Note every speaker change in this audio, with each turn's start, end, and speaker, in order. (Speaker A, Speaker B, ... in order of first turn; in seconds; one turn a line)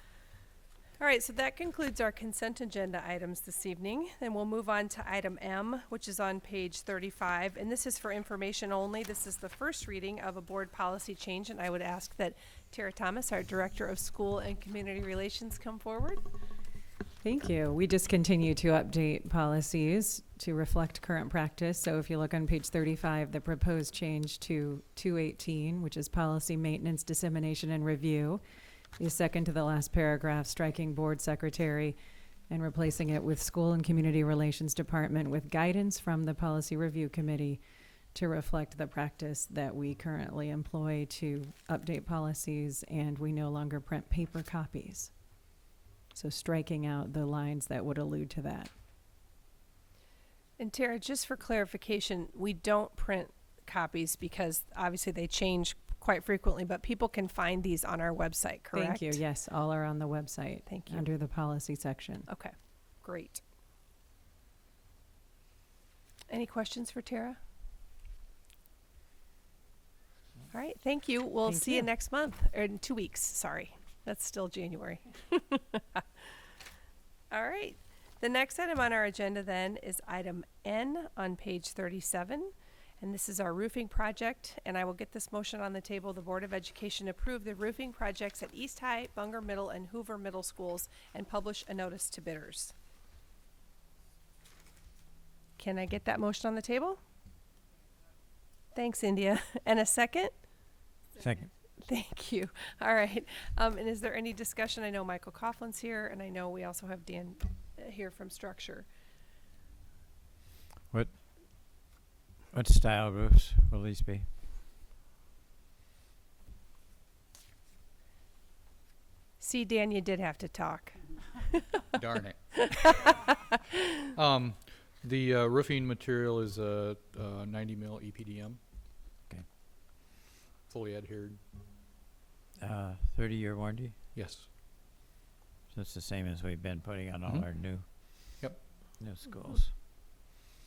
Speaker A: 1.0-16.2
Speaker B: 17.2-28.4
Speaker B: 29.0-31.9
Speaker B: 32.5-37.6
Speaker B: 38.1-45.1
Speaker B: 46.1-48.7
Speaker A: 50.6-59.2
Speaker B: 58.7-62.3
Speaker A: 60.7-61.1
Speaker A: 62.3-63.4
Speaker A: 66.3-67.4
Speaker A: 70.5-76.0
Speaker B: 71.5-71.9
Speaker A: 77.3-92.7
Speaker A: 95.6-97.0
Speaker A: 98.7-100.3
Speaker C: 101.2-101.5
Speaker A: 101.8-108.9
Speaker C: 112.5-114.3
Speaker A: 119.4-121.8
Speaker D: 122.0-123.2
Speaker A: 122.7-123.1
Speaker D: 124.2-128.6
Speaker D: 130.7-131.4
Speaker C: 132.6-133.9
Speaker D: 134.1-134.5
Speaker C: 135.7-139.7
Speaker D: 138.4-138.7